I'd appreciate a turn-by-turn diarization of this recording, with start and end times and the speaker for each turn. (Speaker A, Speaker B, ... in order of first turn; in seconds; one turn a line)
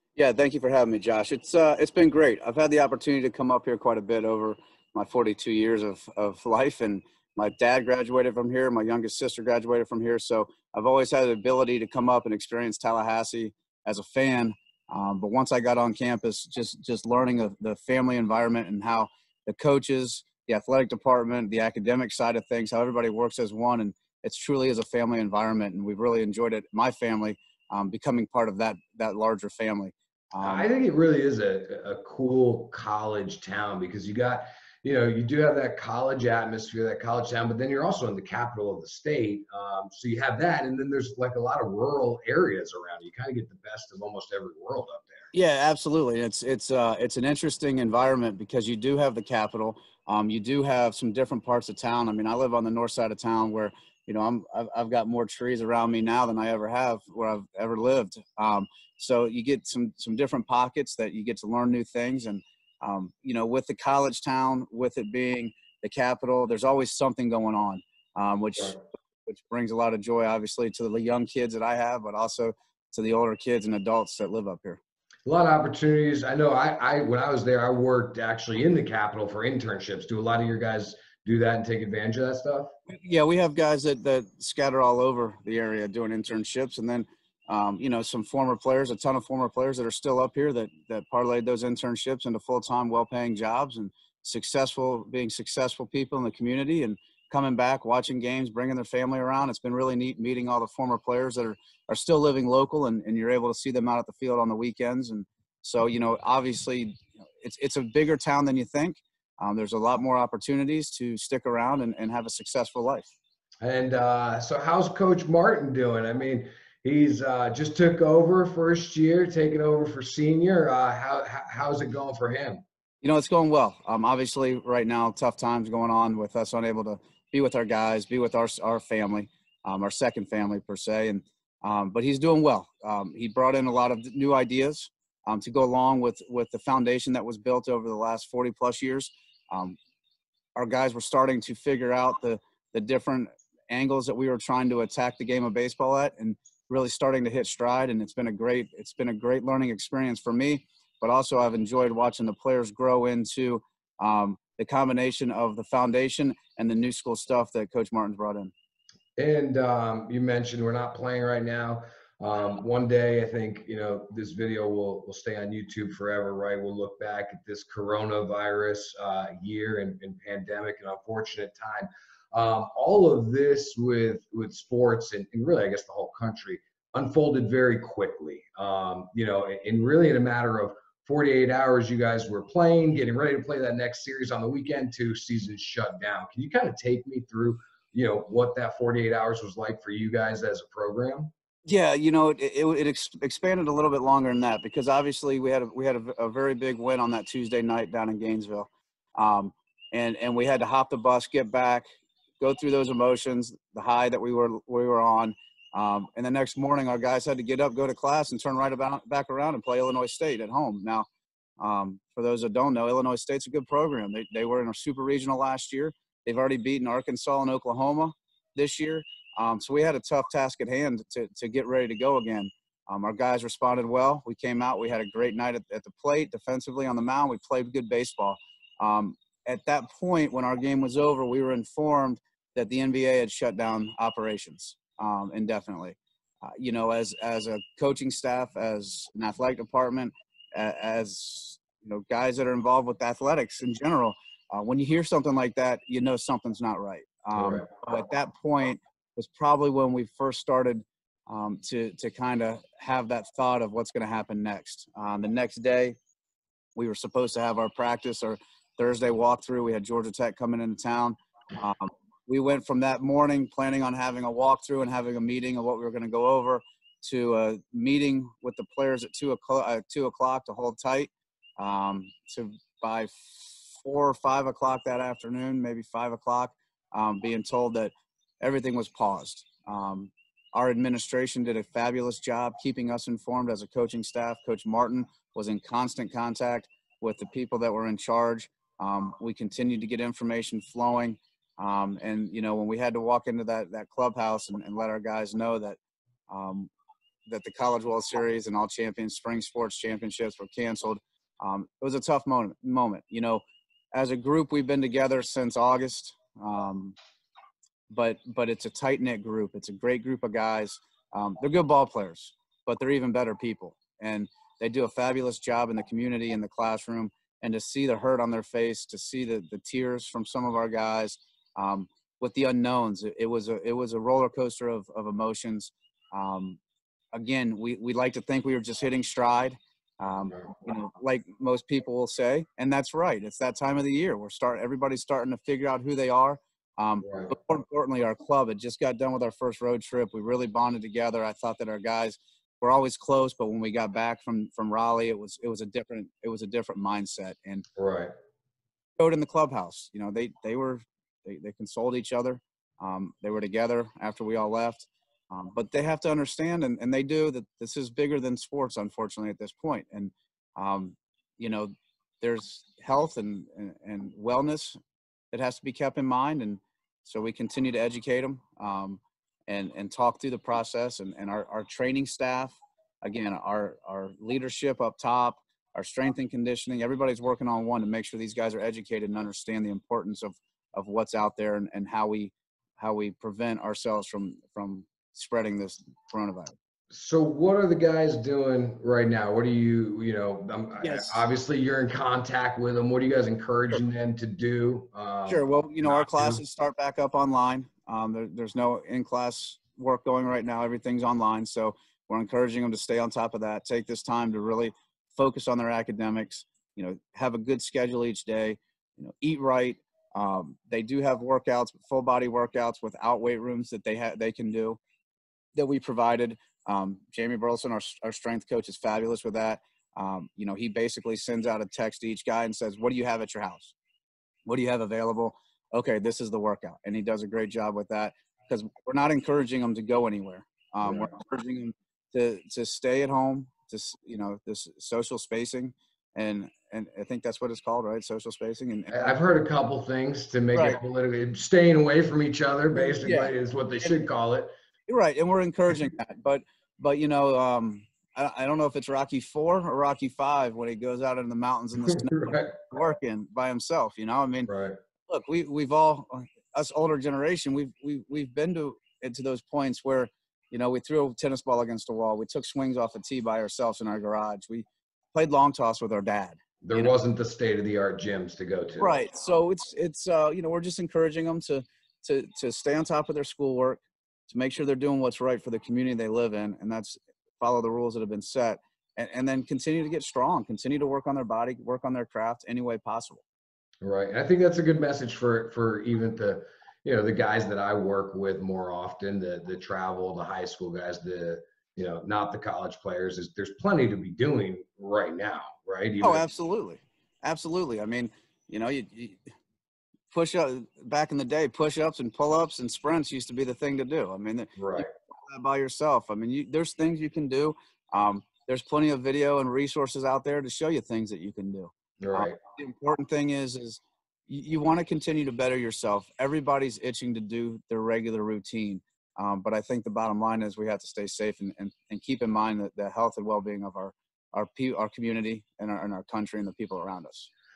Speaker A: 0.1-30.7
Speaker B: 30.4-45.3
Speaker A: 45.3-74.8
Speaker B: 75.2-82.7
Speaker A: 82.9-113.1
Speaker B: 113.6-122.6
Speaker A: 123.0-139.8
Speaker A: 140.5-158.5
Speaker B: 159.2-191.3
Speaker A: 191.7-201.8
Speaker A: 202.4-211.1
Speaker A: 211.6-256.0
Speaker B: 247.3-247.6
Speaker A: 256.8-296.7
Speaker A: 297.3-307.0
Speaker A: 307.9-326.6
Speaker A: 327.1-347.6
Speaker B: 337.0-337.3
Speaker B: 347.8-348.1
Speaker A: 349.0-364.8
Speaker A: 365.3-386.5
Speaker B: 386.9-396.4
Speaker A: 390.8-391.2
Speaker A: 395.3-414.8
Speaker A: 415.6-423.7
Speaker A: 424.4-439.2
Speaker B: 430.8-431.1
Speaker B: 438.9-444.5
Speaker A: 440.5-440.8
Speaker A: 442.7-444.0
Speaker A: 444.9-454.5
Speaker B: 451.9-452.5
Speaker B: 454.5-454.7
Speaker A: 455.1-466.9
Speaker B: 466.6-469.0
Speaker A: 468.8-483.2
Speaker B: 483.8-496.2
Speaker A: 496.0-499.2
Speaker A: 500.1-527.3
Speaker B: 504.6-504.9
Speaker B: 512.0-512.4